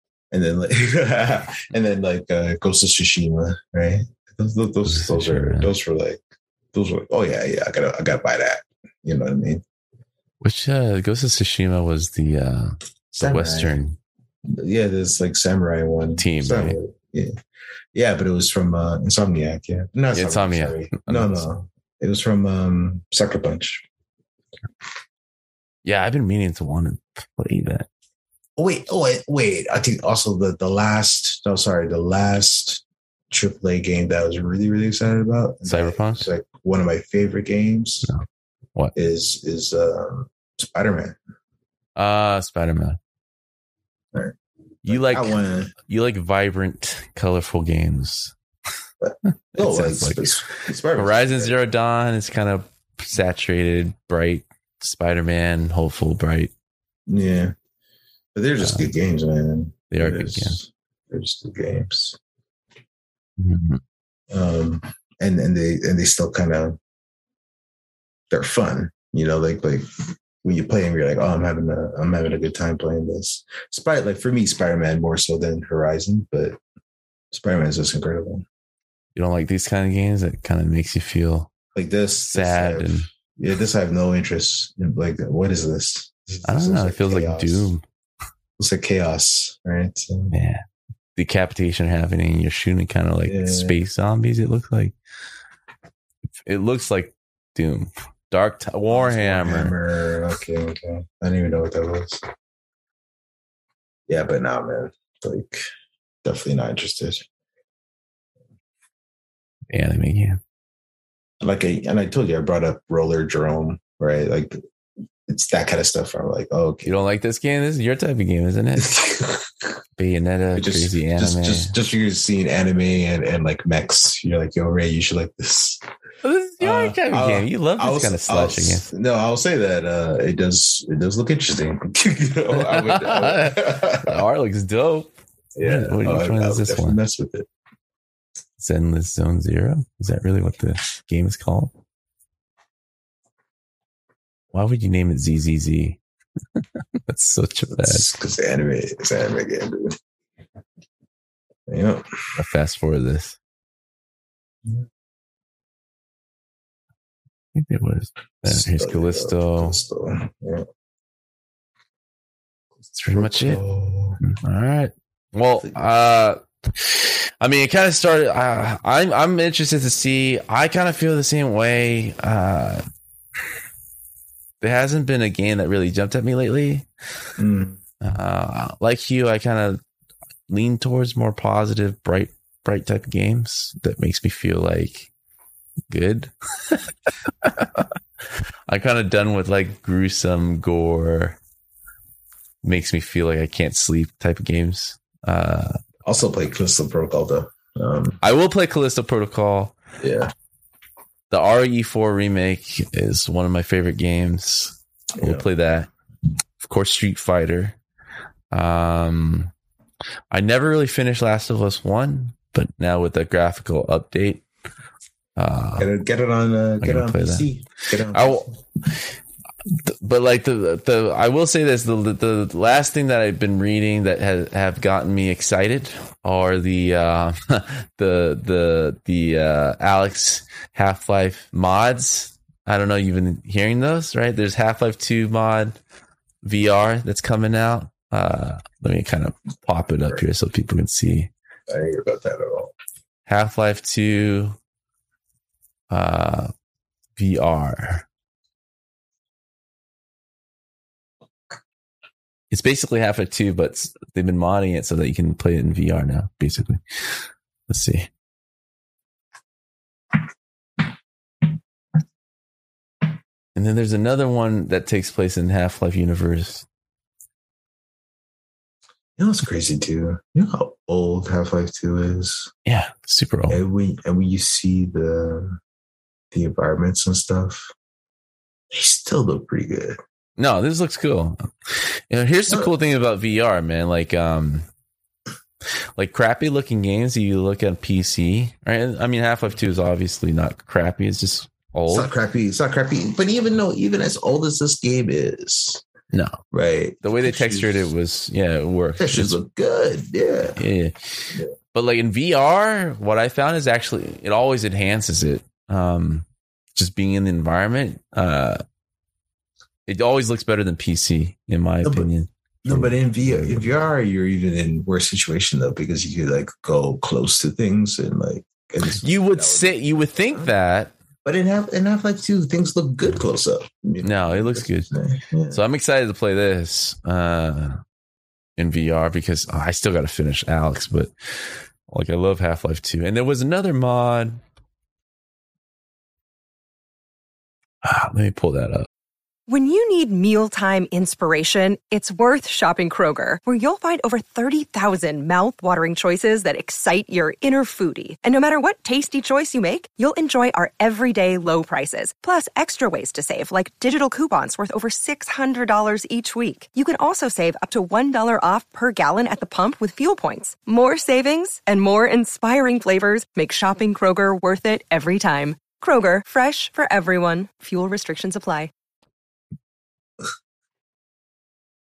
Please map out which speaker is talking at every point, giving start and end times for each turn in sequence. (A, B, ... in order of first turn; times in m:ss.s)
0:00.3-0:06.2 A
0:04.9-0:05.7 B
0:06.7-0:09.6 A
0:10.4-0:14.0 B
0:13.2-0:13.8 A
0:14.5-0:17.4 A
0:16.2-0:16.8 B
0:17.9-0:23.8 A
0:20.1-0:21.5 B
0:25.8-0:27.9 B
0:28.6-0:38.1 A
0:35.6-0:36.3 B
0:38.9-0:41.2 A
0:42.0-0:43.0 B
0:44.1-0:45.7 A
0:44.9-0:48.3 B
0:49.0-0:51.7 A
0:49.6-0:50.3 B
0:51.0-0:56.5 B
0:57.1-0:57.5 A
0:58.4-1:02.2 A
0:58.6-0:58.9 B
0:59.9-1:00.6 B
1:03.4-1:03.8 B
1:04.3-1:06.8 A
1:08.3-1:16.6 A
1:17.3-1:18.5 A
1:19.2-1:21.5 B
1:21.8-1:27.7 A
1:22.3-1:23.1 B
1:26.4-1:27.8 B
1:28.6-1:30.3 A
1:30.3-1:30.6 B
1:31.2-1:35.0 B
1:33.3-1:33.8 A
1:36.4-1:39.7 B
1:38.9-1:42.3 A
1:44.1-1:45.7 A
1:46.2-1:47.2 A
1:49.7-1:50.4 B
1:51.4-1:54.6 A
1:55.3-1:56.9 A
1:56.8-1:58.9 B
1:58.8-1:59.7 A
2:00.0-2:01.7 B
2:00.6-2:05.8 A
2:06.2-2:08.9 B
2:06.6-2:14.2 A
2:12.5-2:17.0 B
2:15.6-2:17.5 A
2:18.6-2:21.7 B
2:24.5-2:26.0 B
2:26.6-2:28.1 B
2:27.8-2:30.0 A
2:31.7-2:32.1 A
2:32.4-2:33.4 B
2:37.6-2:39.8 B
2:38.4-2:40.7 A
2:42.9-2:43.6 B
2:43.1-2:44.2 A
2:44.2-2:52.8 B
2:54.6-2:56.9 B
2:57.4-2:57.8 A
2:58.0-2:59.8 B
3:00.5-3:05.1 B
3:05.9-3:06.9 B
3:07.4-3:07.7 B
3:08.7-3:11.4 B
3:12.6-3:15.8 B
3:16.0-3:18.2 A
3:18.2-3:19.8 B
3:20.0-3:20.3 A
3:21.3-3:25.9 B
3:25.2-3:25.5 A
3:26.6-3:27.8 B
3:28.5-3:29.5 B
3:30.3-3:34.4 B
3:35.4-3:35.9 B
3:35.8-3:38.6 A
3:36.8-3:37.5 B
3:38.1-3:38.5 B
3:39.7-3:55.8 B
3:56.4-4:01.3 B
4:01.7-4:02.7 A
4:03.3-4:04.6 B
4:05.9-4:06.5 B
4:07.2-4:08.0 B
4:12.5-4:18.1 B
4:23.6-4:26.7 B
4:29.2-4:32.5 A
4:32.7-4:33.6 B
4:33.5-4:35.6 A
4:36.3-4:37.7 A
4:38.7-4:40.0 A
4:40.4-4:44.7 B
4:46.0-4:52.1 B
4:51.9-4:55.8 A
4:56.1-4:56.4 B
4:56.5-4:57.9 A
4:57.0-4:59.4 B
4:59.0-5:00.6 A
5:00.6-5:01.2 B
5:01.7-5:08.6 B
5:09.9-5:13.7 B
5:11.8-5:12.1 A
5:12.6-5:19.8 A
5:19.0-5:20.9 B
5:21.2-5:25.6 A
5:24.0-5:24.9 B
5:25.5-5:27.8 B
5:28.6-5:34.4 B
5:37.8-5:38.9 B
5:39.5-6:08.7 C